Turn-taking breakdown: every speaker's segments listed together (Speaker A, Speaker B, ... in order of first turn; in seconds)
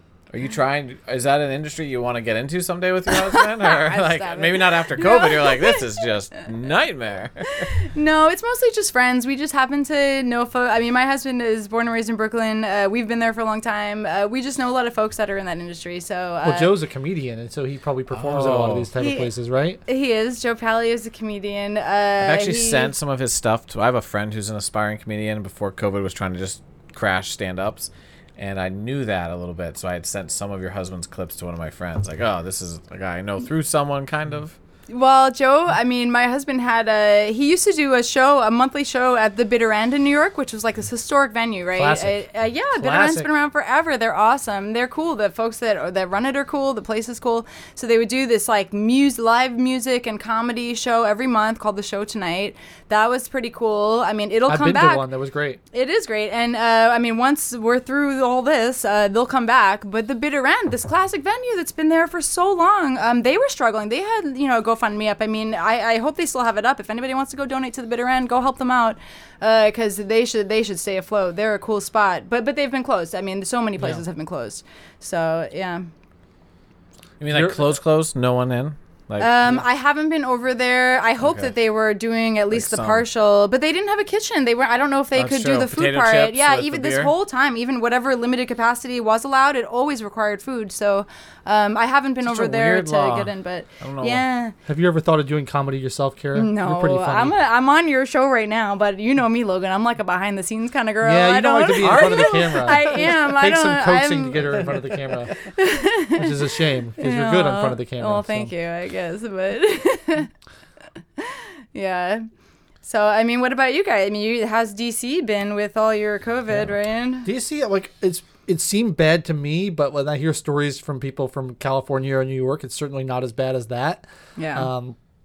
Speaker A: 0.3-7.7, 18.1-18.9, 22.2-34.6, 77.2-79.3, 81.2-81.5, 82.5-83.0, 85.2-87.1, 92.2-94.2
Speaker B: 3.1-6.0, 7.5-16.7, 19.0-19.3, 19.9-22.9, 34.9-55.1, 55.7-75.9, 79.2-94.5, 96.3-104.7, 105.4-110.3, 111.2-112.3, 112.8-117.3, 124.4-124.7
Speaker C: 16.4-19.8, 41.8-43.3, 54.5-55.6, 77.3-77.7, 94.7-97.3, 101.0-105.5, 106.2-108.5, 117.2-124.0, 124.5-125.0